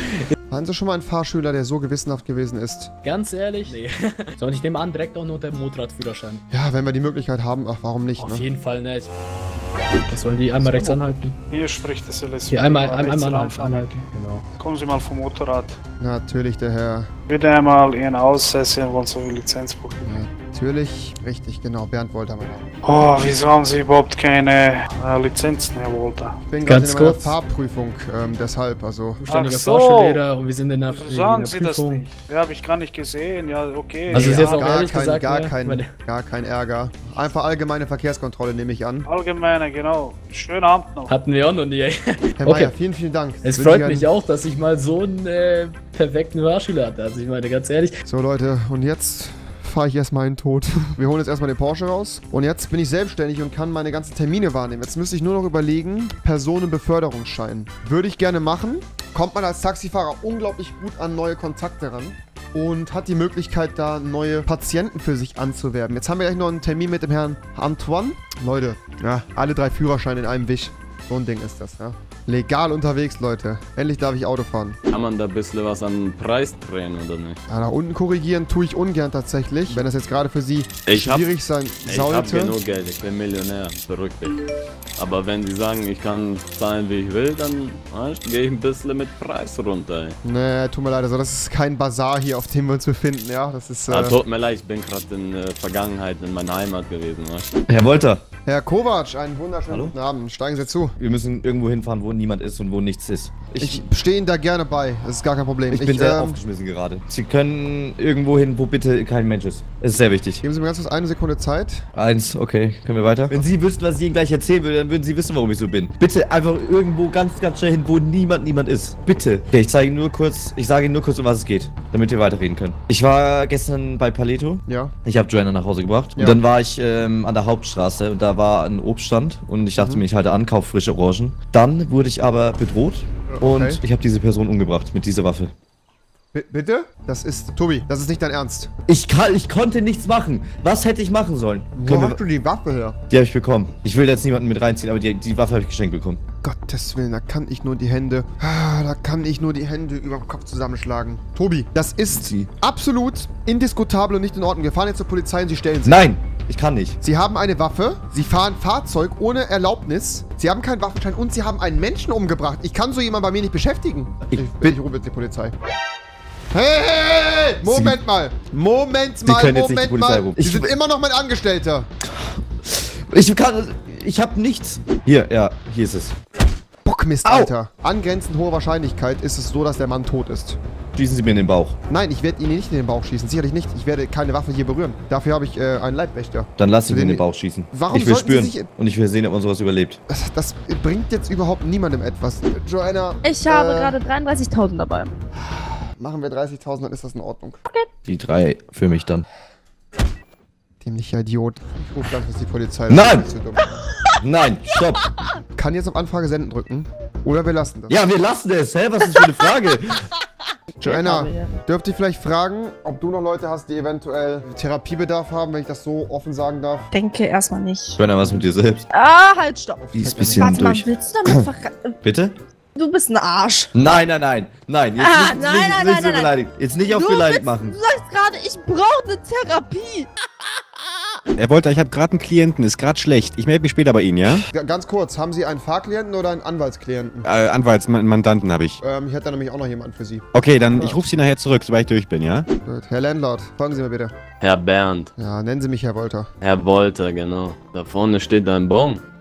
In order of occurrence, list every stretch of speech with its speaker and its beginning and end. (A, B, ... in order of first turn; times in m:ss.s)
0:00.5-0:02.9 A
0:03.0-0:06.4 B
0:06.5-0:08.5 A
0:08.2-0:09.1 B
0:10.1-0:11.4 B
0:10.6-0:11.0 A
0:11.5-0:14.0 C
0:12.5-0:14.4 B
0:14.6-0:15.8 C
0:16.0-0:17.1 A
0:17.3-0:20.0 C
0:20.0-0:22.7 A
0:22.8-0:26.4 C
0:26.5-0:29.2 A
0:26.7-0:27.4 B
0:29.2-0:32.1 B
0:29.3-0:30.2 C
0:30.9-0:34.7 C
0:34.1-0:35.9 B
0:34.1-0:39.1 A
0:39.1-0:41.1 C
0:41.1-0:42.7 B
0:42.4-0:44.1 A
0:43.4-0:48.0 B
0:48.1-1:14.8 A
1:14.9-1:17.4 D
1:17.5-1:22.6 A
1:20.9-1:21.3 D
1:21.8-1:24.4 D
1:25.0-1:30.2 D
1:30.2-1:34.2 A
1:33.9-1:37.5 D
1:37.7-1:38.2 E
1:38.5-1:41.0 A
1:39.7-1:40.0 E
1:41.0-1:43.8 E
1:43.6-1:46.4 A
1:45.7-1:50.4 E
1:50.4-1:51.9 A
1:52.0-2:15.5 E
2:04.7-2:04.9 A
2:09.8-2:10.0 A
2:13.3-2:13.8 A
2:16.3-2:18.7 A
2:18.9-2:22.2 E
2:21.8-2:23.0 A
2:23.1-2:26.2 E
2:26.4-2:36.1 A
2:32.2-2:32.5 E
2:35.8-2:37.0 E
2:37.0-2:45.5 A
2:44.3-2:44.8 E
2:46.5-2:51.9 A
2:47.6-2:48.0 E
2:49.2-2:50.7 E
2:52.1-2:56.2 E
2:56.8-3:00.6 A
2:57.2-2:57.5 E
3:01.0-3:01.8 E
3:01.9-3:08.7 A
3:06.6-3:10.0 E
3:10.1-3:14.0 A
3:13.2-3:15.1 F
3:15.4-3:17.6 A
3:18.1-3:19.2 E
3:20.8-3:23.6 A
3:22.9-3:23.3 E
3:24.2-3:25.0 E
3:25.6-3:28.0 A
3:27.9-3:30.1 E
3:30.8-3:31.5 F
3:30.8-3:36.9 A
3:36.9-3:42.0 F
3:38.0-3:38.9 E
3:39.8-3:40.5 A
3:39.9-3:41.5 E
3:42.0-3:42.4 E
3:42.8-3:43.7 F
3:43.7-3:47.8 E
3:45.0-3:50.1 F
3:51.4-3:54.4 G
3:54.3-3:57.3 A
3:57.2-3:58.8 G
3:58.8-4:01.0 A
4:00.3-4:02.5 G
4:02.6-4:04.2 A
4:04.4-4:05.1 D
4:05.2-4:06.3 A
4:06.4-4:09.0 D